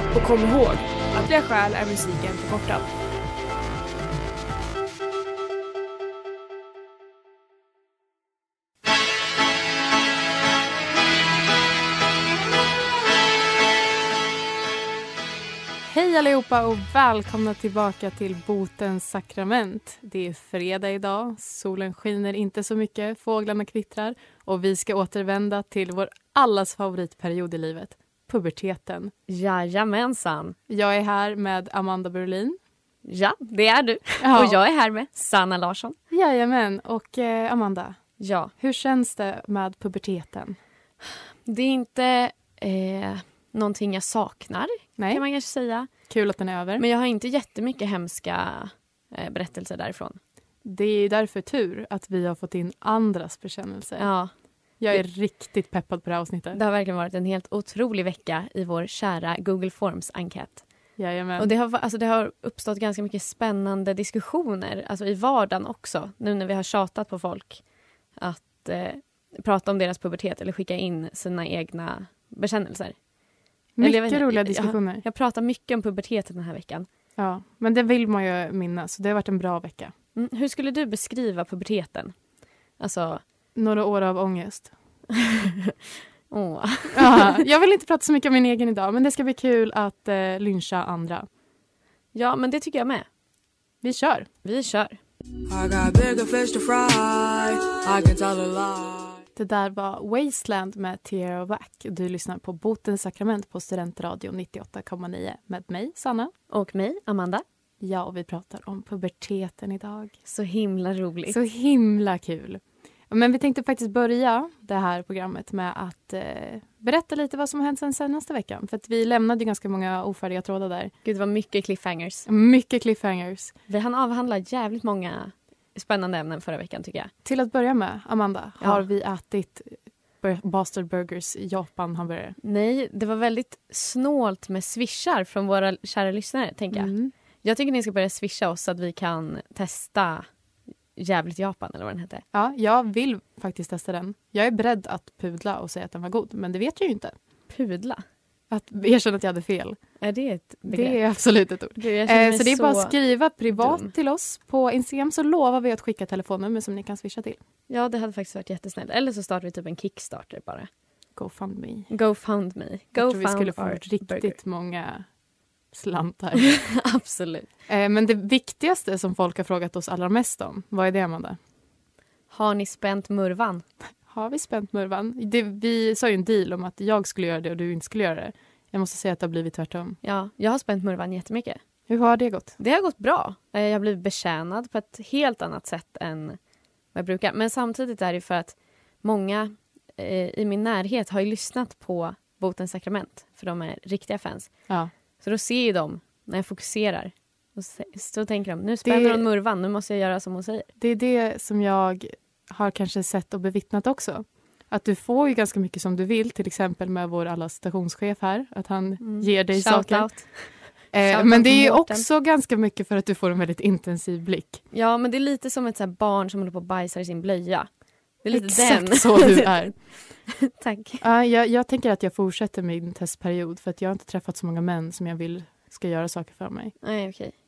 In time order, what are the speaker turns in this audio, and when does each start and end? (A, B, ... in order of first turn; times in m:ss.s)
0:00.1-0:03.0 A
0:15.8-0:29.1 B
0:29.3-0:30.6 C
0:30.7-0:32.6 B
0:33.0-0:36.0 C
0:34.2-0:34.6 B
0:36.1-0:38.0 B
0:38.2-0:38.5 C
0:38.6-0:40.6 B
0:41.4-0:45.9 C
0:45.0-0:45.2 B
0:46.1-0:46.8 B
0:46.8-0:50.2 C
0:50.6-0:54.1 B
0:54.0-0:54.3 C
0:54.8-0:56.6 B
0:56.5-1:00.6 C
1:01.0-1:01.5 B
1:01.4-1:07.6 C
1:08.2-1:13.0 C
1:13.8-1:15.0 B
1:13.8-1:16.9 C
1:17.2-1:19.9 B
1:20.1-1:22.1 C
1:22.8-1:23.2 C
1:23.5-1:24.7 B
1:25.1-1:25.8 C
1:26.3-1:27.4 C
1:26.9-1:31.3 B
1:32.1-1:33.1 C
1:33.8-1:34.3 B
1:34.4-1:35.0 C
1:35.5-1:39.2 D
1:39.4-1:46.3 B
1:46.5-1:47.4 C
1:47.8-1:50.1 B
1:50.2-1:51.4 C
1:51.3-2:00.9 B
2:01.0-2:02.3 C
2:02.2-2:03.5 B
2:03.7-2:07.1 C
2:07.2-2:12.4 B
2:12.4-2:20.3 C
2:16.7-2:17.1 B
2:21.0-2:22.2 C
2:22.3-2:27.1 B
2:27.5-2:28.0 C
2:28.5-2:29.8 B
2:30.0-2:31.0 C
2:30.7-2:37.4 B
2:31.8-2:33.0 C
2:33.5-2:33.9 C
2:37.7-2:40.7 C
2:41.2-2:41.9 B
2:41.9-2:44.3 C
2:42.9-2:45.0 B
2:45.7-2:46.6 B
2:46.4-2:47.5 C
2:47.7-2:51.4 B
2:52.3-2:53.6 C
2:54.1-3:00.0 B
3:00.0-3:01.6 C
3:01.9-3:02.5 B
3:02.6-3:06.4 C
3:06.9-3:14.5 C
3:15.2-3:20.7 C
3:18.8-3:19.2 B
3:20.8-3:30.3 B
3:29.0-3:32.0 C
3:30.9-3:34.6 B
3:34.7-3:37.7 C
3:38.2-3:41.0 C
3:38.3-3:39.8 B
3:41.0-3:46.8 B
3:46.8-3:47.3 C